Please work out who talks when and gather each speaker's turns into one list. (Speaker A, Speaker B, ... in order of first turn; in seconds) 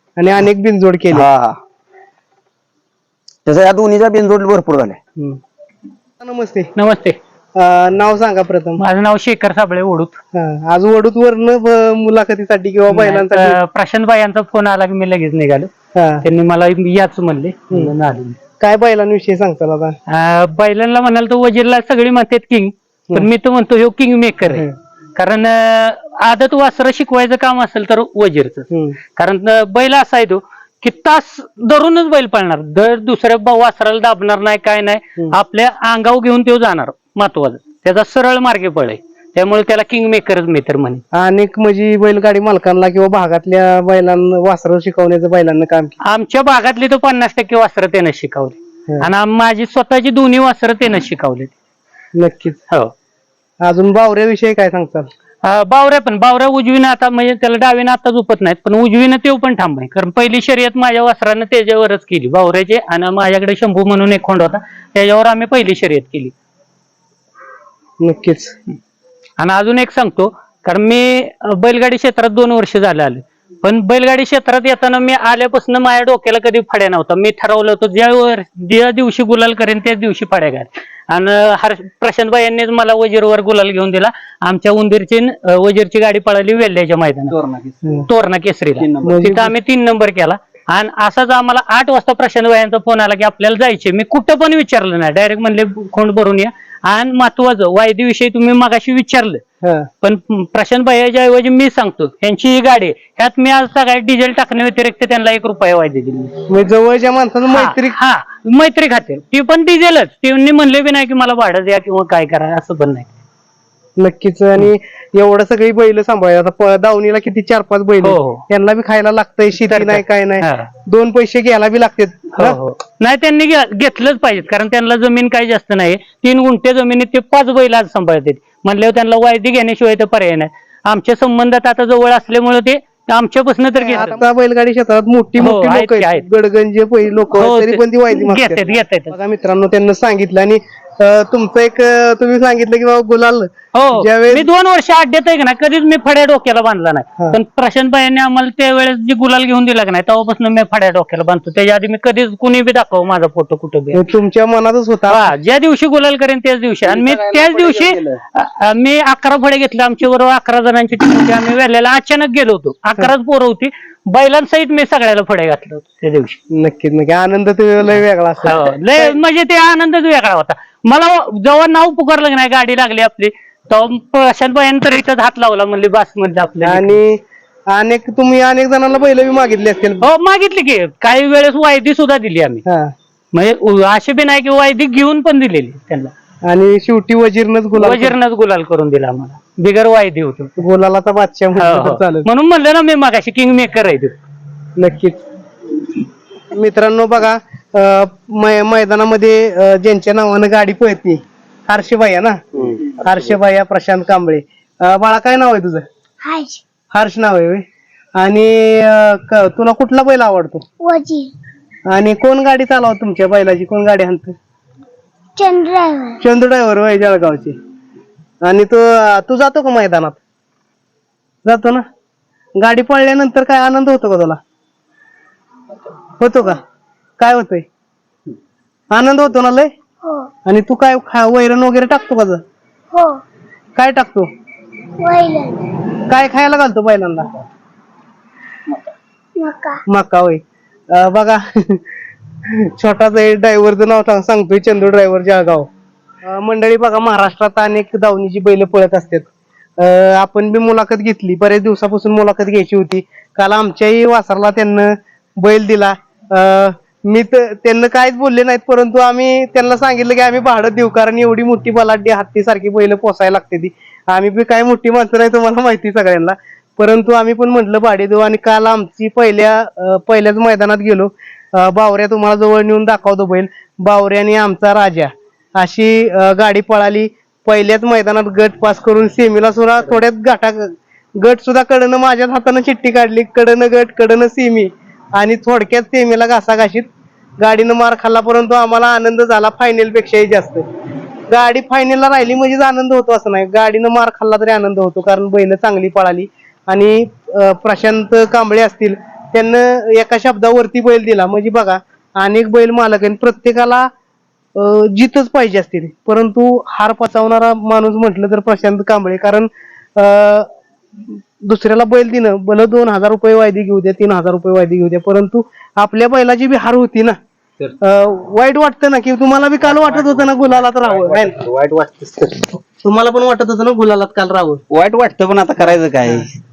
Speaker A: 0.2-1.3, 6.2-6.7, 7.6-8.8, 10.3-13.6, 15.9-16.2, 18.6-20.0, 28.7-29.0, 41.1-46.0, 52.2-52.6, 53.6-55.1, 68.0-68.5, 89.0-89.5, 99.6-99.9, 106.5-108.0, 114.0-122.6, 133.8-144.4, 153.9-155.3, 166.5-169.2, 176.6-180.0, 182.7-182.9, 186.5-188.2, 190.6-192.3, 194.8-195.2, 196.5-202.4, 203.0-205.8, 206.9-207.6, 208.2-210.6, 211.9-214.3, 216.2-217.6, 218.4-220.2, 221.4-221.8, 222.6-224.4, 226.2-226.6, 227.2-227.7, 228.9-229.7, 230.5-232.4, 233.8-234.3, 236.1-237.4, 239.9-241.8, 242.5-245.7, 246.2-249.3, 249.8-286.9, 287.4-290.6, 291.3-303.9, 304.6-310.5, 311.1-317.2, 317.8-321.4, 322.8-324.6, 325.6-326.3
Speaker B: 1.1-1.6, 3.5-5.0
Speaker C: 6.8-7.2, 8.8-10.2, 12.9-15.7, 16.2-18.4, 20.1-41.0, 46.0-51.5, 55.4-66.3, 69.4-87.3, 88.1-99.4, 100.0-106.3, 107.5-113.1, 118.0-118.4, 119.6-120.7, 122.4-134.2, 135.4-136.2, 137.3-139.2, 143.7-154.0, 155.1-166.4, 168.4-177.0, 180.0-182.6, 183.3-186.1, 187.8-190.5, 191.6-194.2
Speaker D: 87.3-88.0, 88.8-89.2, 156.8-158.2, 202.6-203.0, 319.6-322.6, 324.7-326.3
Speaker E: 206.2-206.6, 210.8-211.3, 215.4-216.2, 230.0-230.3, 232.9-233.2, 235.0-235.6, 239.4-239.8